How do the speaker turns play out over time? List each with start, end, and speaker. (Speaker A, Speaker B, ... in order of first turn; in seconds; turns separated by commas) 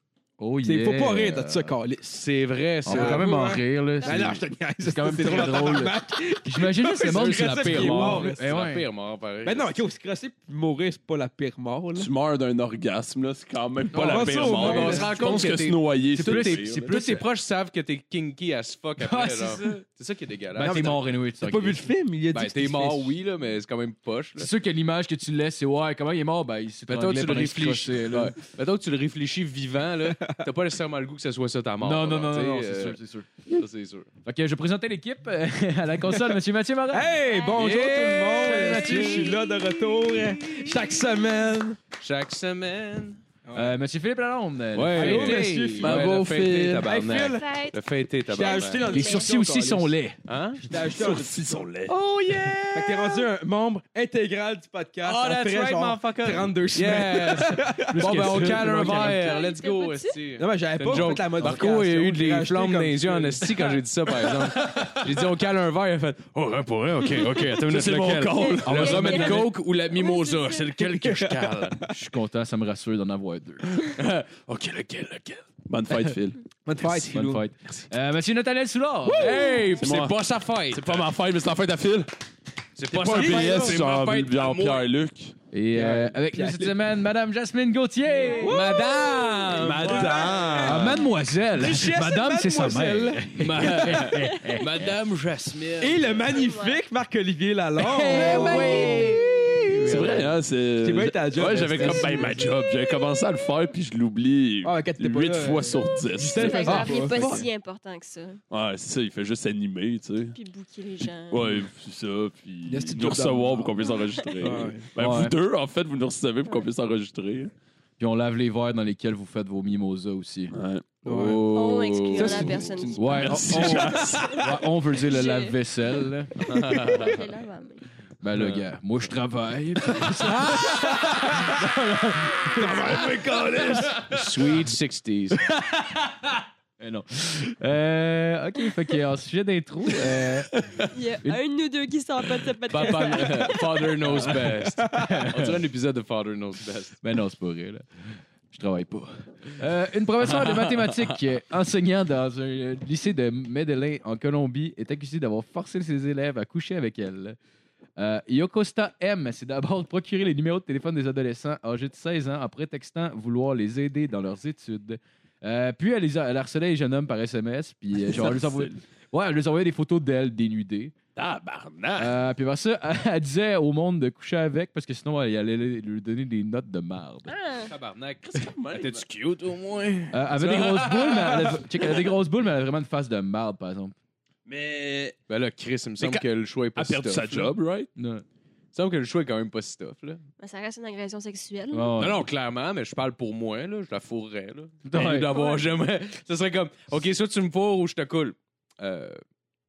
Speaker A: 0.4-1.8, Speaker B: 0.6-2.2, Speaker C: 2.1-3.4, Speaker A: 2.9-8.9, Speaker B: 2.9-8.6, Speaker D: 4.0-4.3, Speaker C: 7.1-9.8, Speaker B: 9.4-12.1, Speaker E: 11.9-16.9, Speaker B: 13.9-15.4, Speaker C: 14.1-20.9, Speaker A: 16.1-17.3, Speaker A: 19.0-19.8, Speaker A: 20.6-21.9, Speaker B: 20.6-23.1, Speaker C: 22.3-24.5, Speaker A: 24.4-28.4, Speaker C: 26.9-33.0, Speaker B: 30.2-30.4, Speaker A: 31.8-33.3, Speaker C: 33.5-34.1, Speaker A: 34.2-37.2, Speaker B: 36.9-41.8, Speaker D: 37.3-37.7, Speaker C: 37.5-39.3, Speaker A: 38.4-39.4, Speaker D: 38.7-39.4, Speaker C: 42.0-43.2, Speaker B: 43.5-43.8, Speaker A: 43.5-45.7, Speaker C: 44.8-48.9, Speaker B: 44.9-46.1, Speaker E: 45.7-46.9, Speaker B: 46.8-47.5, Speaker D: 47.0-47.8, Speaker B: 48.3-49.9, Speaker D: 48.3-49.3, Speaker A: 48.9-50.2, Speaker C: 50.3-50.6, Speaker B: 50.6-51.7, Speaker E: 50.8-52.0, Speaker C: 51.9-53.1, Speaker B: 52.7-59.2, Speaker C: 55.0-71.9, Speaker A: 57.8-59.3, Speaker D: 59.0-60.2, Speaker B: 60.4-63.8, Speaker A: 60.9-61.6, Speaker E: 64.6-65.0, Speaker E: 67.3-69.2, Speaker D: 68.3-70.8, Speaker A: 68.7-69.5, Speaker B: 71.0-71.7, Speaker A: 71.9-73.7, Speaker C: 73.8-75.5, Speaker E: 75.7-76.4, Speaker B: 76.7-77.5, Speaker A: 77.1-79.5, Speaker B: 79.1-79.8, Speaker C: 79.2-81.1, Speaker E: 79.8-80.2, Speaker E: 80.7-82.2, Speaker C: 82.8-84.8, Speaker E: 82.9-85.3, Speaker B: 83.1-83.8, Speaker A: 85.5-88.6, Speaker B: 85.7-86.8, Speaker D: 88.1-88.7, Speaker B: 88.3-91.0, Speaker C: 88.4-90.4, Speaker E: 89.5-91.0, Speaker D: 89.9-90.5, Speaker A: 90.6-94.9, Speaker B: 91.5-94.3, Speaker C: 93.5-96.0, Speaker D: 94.3-94.7, Speaker B: 95.8-100.2, Speaker D: 96.2-96.8, Speaker A: 97.8-99.6, Speaker D: 98.0-99.7, Speaker C: 99.7-100.3, Speaker E: 99.8-107.4, Speaker B: 100.8-102.5, Speaker A: 101.8-102.1, Speaker B: 104.6-107.5, Speaker D: 106.2-108.4, Speaker E: 108.5-110.4, Speaker D: 110.3-111.7, Speaker E: 111.3-117.5, Speaker B: 112.7-113.8, Speaker D: 113.8-114.5, Speaker B: 114.4-114.9, Speaker A: 115.0-115.4, Speaker A: 118.0-120.5, Speaker E: 120.5-120.9, Speaker B: 121.0-124.3, Speaker C: 121.0-122.6, Speaker D: 121.5-125.6, Speaker A: 123.0-126.4, Speaker E: 123.2-124.4, Speaker C: 126.4-127.2, Speaker D: 126.7-127.8, Speaker A: 128.2-134.2, Speaker C: 128.3-128.7, Speaker B: 132.5-133.6, Speaker E: 132.9-134.2, Speaker C: 134.1-135.4, Speaker A: 135.4-140.6, Speaker D: 140.9-143.9, Speaker C: 142.7-147.0, Speaker B: 144.3-145.2, Speaker A: 144.9-145.6, Speaker A: 147.0-157.4, Speaker C: 150.2-151.2, Speaker A: 158.0-170.9, Speaker E: 168.0-168.8, Speaker E: 171.2-172.2, Speaker A: 172.0-177.3, Speaker D: 177.3-177.7, Speaker C: 177.7-181.6, Speaker E: 178.2-179.1, Speaker A: 180.1-183.9, Speaker E: 184.5-185.2, Speaker C: 185.3-187.5, Speaker E: 186.0-187.9, Speaker A: 188.0-188.2, Speaker C: 188.7-190.2, Speaker D: 190.4-192.0, Speaker A: 191.7-192.3, Speaker C: 192.0-199.2, Speaker A: 194.8-195.3, Speaker D: 195.3-195.6